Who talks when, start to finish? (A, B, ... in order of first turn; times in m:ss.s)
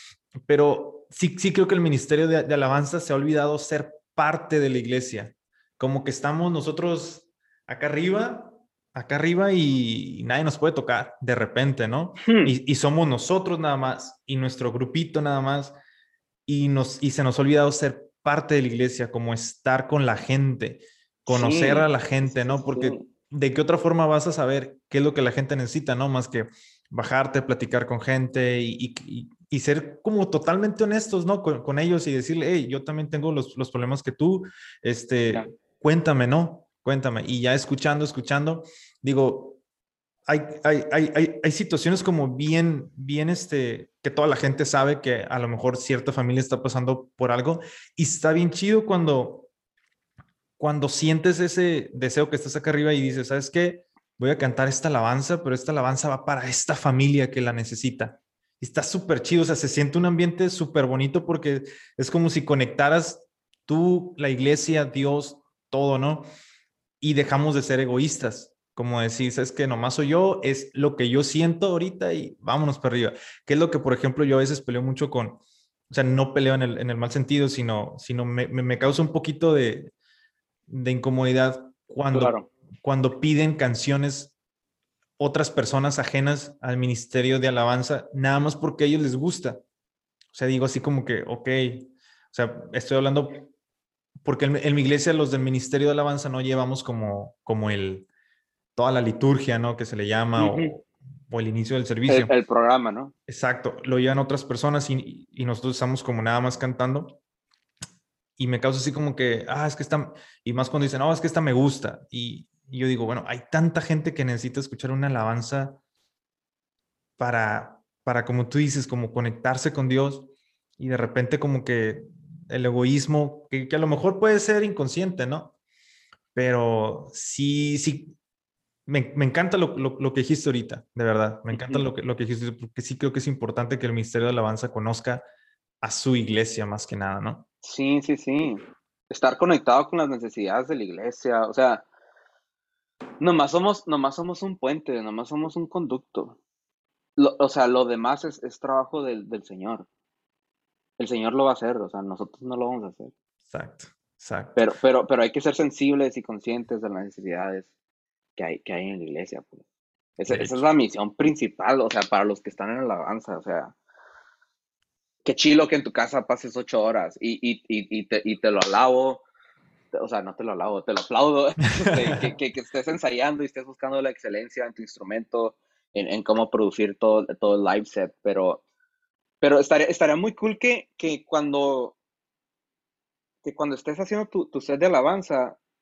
0:00.4-0:15.8 A
0:12.2-0:12.5 B
0:16.5-0:39.6 A
0:21.3-0:23.0 B
0:40.3-0:49.5 A
0:50.6-1:06.2 A
1:07.0-1:19.9 A
1:20.7-1:24.3 A
1:22.1-1:22.5 B
1:25.2-1:29.6 A
1:30.3-1:33.4 A
1:34.2-1:38.1 A
1:38.8-1:42.3 A
1:40.4-1:40.7 B
1:42.1-1:43.1 B
1:43.3-1:47.2 A
1:48.4-1:55.8 A
1:57.2-2:05.5 A
2:06.3-2:08.1 A
2:08.9-2:15.2 A
2:11.5-2:11.9 B
2:15.8-2:17.4 A
2:17.6-2:21.8 B
2:23.2-2:26.4 B
2:27.2-2:29.9 B
2:31.0-2:33.1 B
2:33.5-2:34.6 A
2:34.6-2:37.7 B
2:38.4-2:39.6 B
2:40.2-2:43.7 B
2:40.3-2:40.6 A
2:45.2-2:49.2 B
2:49.9-2:58.6 B
2:59.4-3:02.0 B
3:03.4-3:05.6 B